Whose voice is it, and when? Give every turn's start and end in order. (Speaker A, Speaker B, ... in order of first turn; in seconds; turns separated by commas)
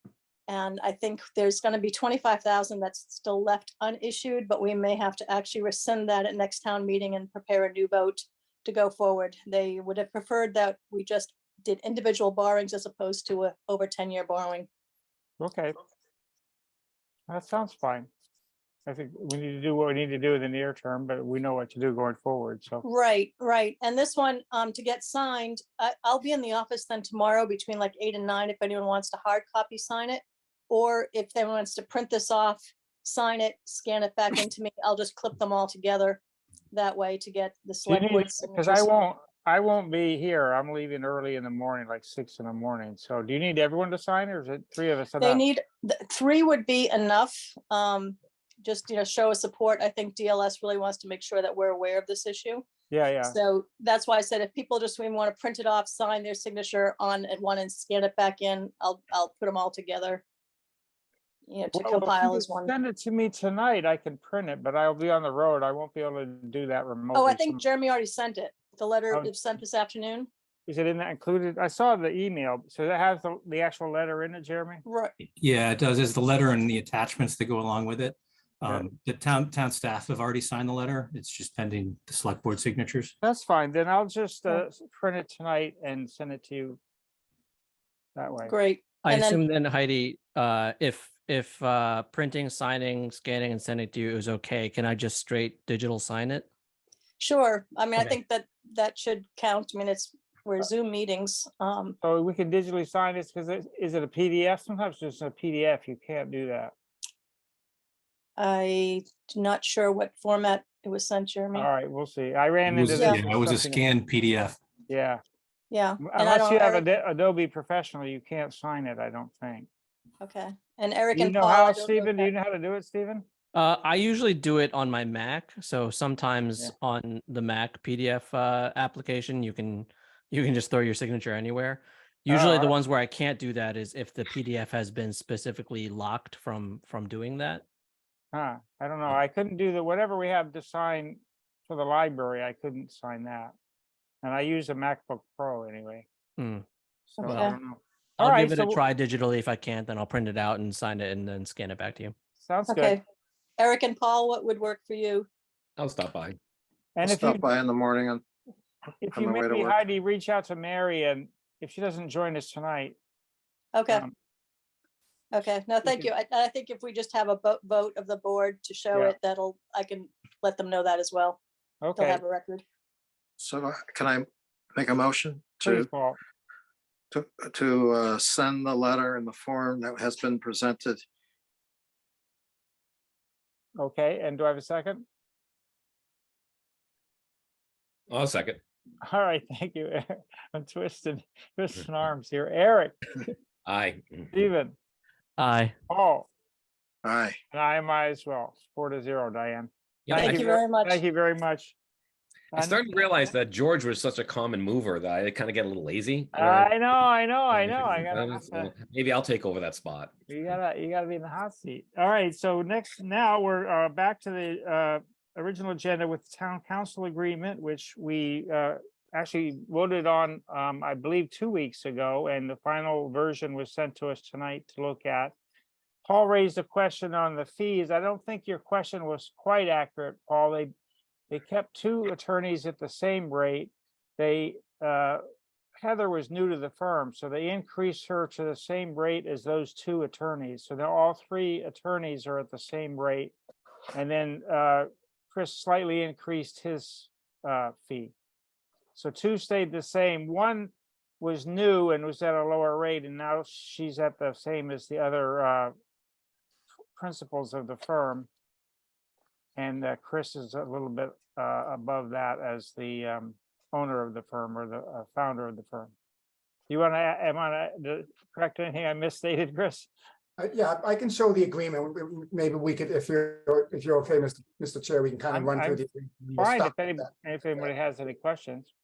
Speaker A: 0.5-14.7, Speaker B: 15.4-15.8, Speaker B: 17.3-18.1, Speaker B: 18.9-22.8, Speaker A: 22.8-38.9, Speaker B: 37.9-45.4, Speaker A: 45.2-52.7, Speaker B: 52.9-53.4, Speaker A: 53.3-60.2, Speaker A: 61.5-62.7, Speaker B: 61.7-67.7, Speaker A: 67.1-70.3, Speaker B: 69.1-69.3, Speaker B: 70.7-74.8, Speaker A: 74.9-75.1, Speaker C: 75.4-83.1, Speaker B: 83.2-86.8, Speaker B: 88.2-88.5, Speaker A: 88.5-89.4, Speaker D: 89.0-96.5, Speaker A: 97.2-102.0, Speaker B: 102.0-106.7, Speaker A: 108.4-111.7, Speaker B: 111.5-113.9, Speaker C: 112.7-114.6, Speaker A: 113.0-113.2, Speaker B: 114.9-115.2, Speaker A: 115.7-116.8, Speaker B: 116.0-119.7, Speaker A: 120.2-122.3, Speaker B: 121.1-123.3, Speaker D: 123.5-137.6, Speaker B: 132.3-132.8, Speaker B: 138.3-143.5, Speaker B: 144.2-146.1, Speaker D: 146.4-146.6, Speaker B: 147.1-148.8, Speaker D: 147.2-147.6, Speaker A: 147.3-147.6, Speaker D: 148.2-152.1, Speaker B: 152.4-153.0, Speaker A: 152.7-153.0, Speaker A: 153.6-155.3, Speaker E: 155.8-156.4, Speaker B: 157.0-157.5, Speaker F: 157.0-158.2, Speaker B: 159.0-162.9, Speaker F: 159.1-159.8, Speaker A: 163.7-164.0, Speaker B: 163.9-164.1, Speaker A: 165.3-171.4, Speaker B: 165.8-166.1, Speaker B: 171.8-172.2, Speaker A: 171.9-172.6, Speaker F: 173.4-175.9, Speaker B: 175.6-176.2, Speaker F: 177.1-181.0, Speaker B: 183.8-185.1, Speaker E: 188.1-188.6, Speaker B: 189.0-192.9, Speaker E: 193.7-194.3, Speaker B: 194.3-194.8, Speaker D: 195.4-195.8, Speaker B: 195.9-196.3, Speaker F: 197.1-197.4, Speaker B: 197.5-201.8, Speaker A: 200.2-201.0, Speaker B: 202.5-203.3, Speaker E: 202.6-206.7, Speaker B: 206.3-208.7, Speaker E: 207.5-210.1, Speaker B: 210.3-225.3, Speaker B: 226.1-230.7, Speaker B: 231.3-235.2, Speaker B: 235.8-243.3, Speaker B: 243.9-248.1, Speaker B: 248.9-255.7, Speaker B: 256.9-258.3, Speaker B: 259.6-265.9, Speaker B: 266.7-269.9, Speaker G: 270.4-277.0, Speaker B: 275.3-275.8, Speaker B: 276.4-278.7